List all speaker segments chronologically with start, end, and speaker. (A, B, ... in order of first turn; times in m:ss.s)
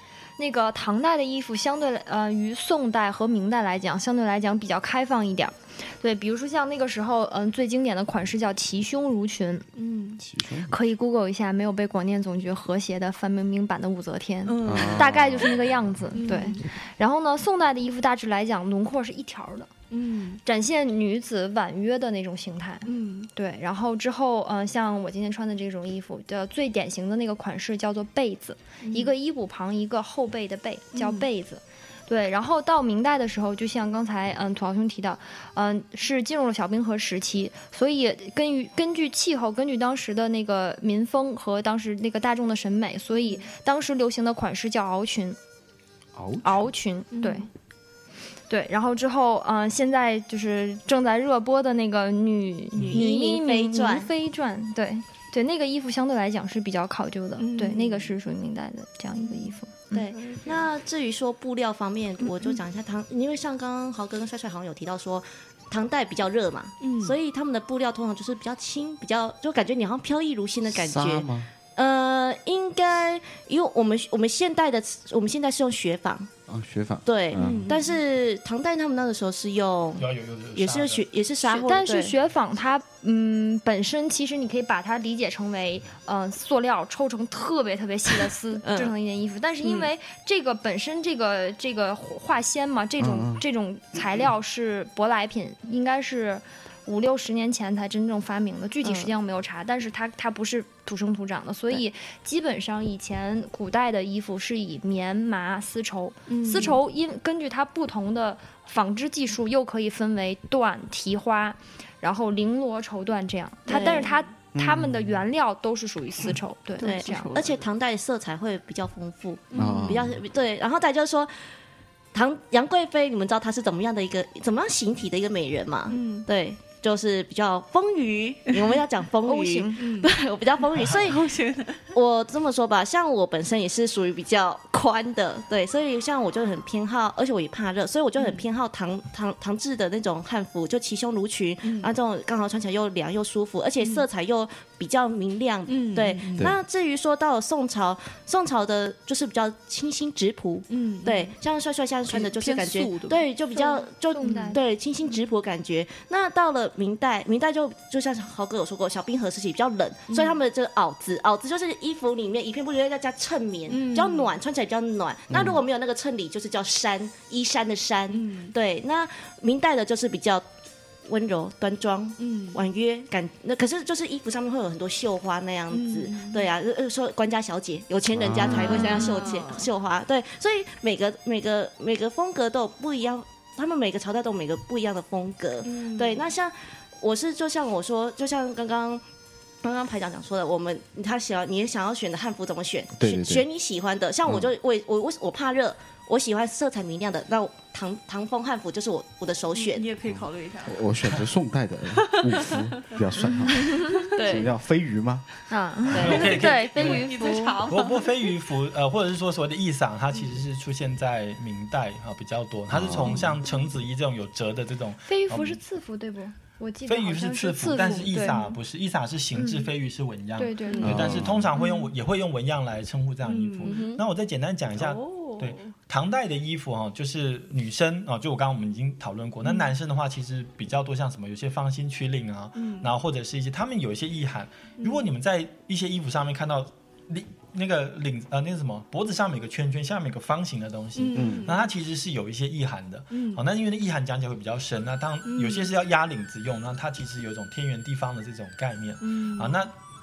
0:00.4-0:09.7 A
0:09.8-0:10.2 B
0:10.2-0:10.7 C
0:10.7-0:19.7 A
0:14.4-0:15.5 B
0:14.6-0:15.9 C
0:16.1-0:16.7 B
0:19.9-0:20.4 B
0:20.4-0:45.4 A
0:22.8-0:23.3 B
0:28.8-0:29.1 B
0:30.9-0:31.3 B
0:46.1-0:46.7 C
0:46.4-0:47.5 A
0:47.1-0:47.5 B
0:48.5-1:00.1 A
0:52.8-0:54.1 D
0:57.4-0:58.2 B
0:59.2-0:59.5 B
0:59.9-1:16.3 D
1:00.2-1:00.6 B
1:02.2-1:02.6 B
1:06.8-1:07.2 B
1:10.7-1:11.5 C
1:16.5-1:17.7 C
1:17.0-1:22.1 D
1:17.4-1:18.0 B
1:20.0-1:21.0 E
1:21.4-1:57.4 A
1:28.6-1:28.9 D
1:33.0-1:33.4 C
1:38.8-1:39.1 D
1:46.3-1:46.8 B
1:53.7-1:54.1 D
1:53.7-1:54.2 B
1:54.6-1:55.2 C
1:56.8-1:57.6 B
1:56.8-2:01.3 D
1:59.5-2:00.0 B
1:59.6-2:00.2 C
2:02.1-2:11.3 D
2:05.9-2:06.3 B
2:08.5-2:08.8 B
2:09.2-2:09.8 A
2:09.8-2:11.9 B
2:11.9-2:50.4 D
2:18.2-2:18.4 B
2:21.6-2:21.9 B
2:23.8-2:24.1 B
2:25.7-2:26.5 B
2:30.7-2:31.3 B
2:32.1-2:34.6 B
2:34.1-2:34.6 A
2:40.1-2:40.4 B
2:43.7-2:44.3 B
2:45.3-2:45.6 C
2:48.1-2:48.5 B
2:51.0-3:09.0 D
2:52.2-2:52.6 B
2:55.7-2:56.5 B
2:58.1-2:58.8 C
2:58.4-2:59.7 B
3:05.6-3:06.3 B
3:09.6-3:19.9 D
3:13.0-3:13.5 C
3:19.6-3:20.9 B
3:20.1-3:25.2 C
3:22.0-3:23.0 B
3:23.3-3:23.7 A
3:23.7-3:24.2 B
3:24.1-3:24.5 D
3:25.5-3:27.6 A
3:25.9-3:26.7 D
3:25.9-3:35.6 E
3:26.1-3:28.3 B
3:32.7-3:33.4 C
3:35.1-3:38.6 A
3:36.9-4:09.7 E
3:37.8-3:38.4 B
3:39.4-3:39.7 A
3:40.4-3:40.9 A
3:40.7-3:41.9 B
3:40.8-3:41.1 D
3:40.8-3:41.5 C
3:43.2-3:43.9 B
3:43.6-3:44.0 D
3:44.8-3:45.7 B
3:49.4-3:49.7 B
3:52.6-3:52.9 B
3:54.8-3:55.1 B
4:01.0-4:01.7 B
4:01.1-4:01.5 C
4:03.1-4:03.4 B
4:05.2-4:05.7 B
4:09.0-4:09.6 B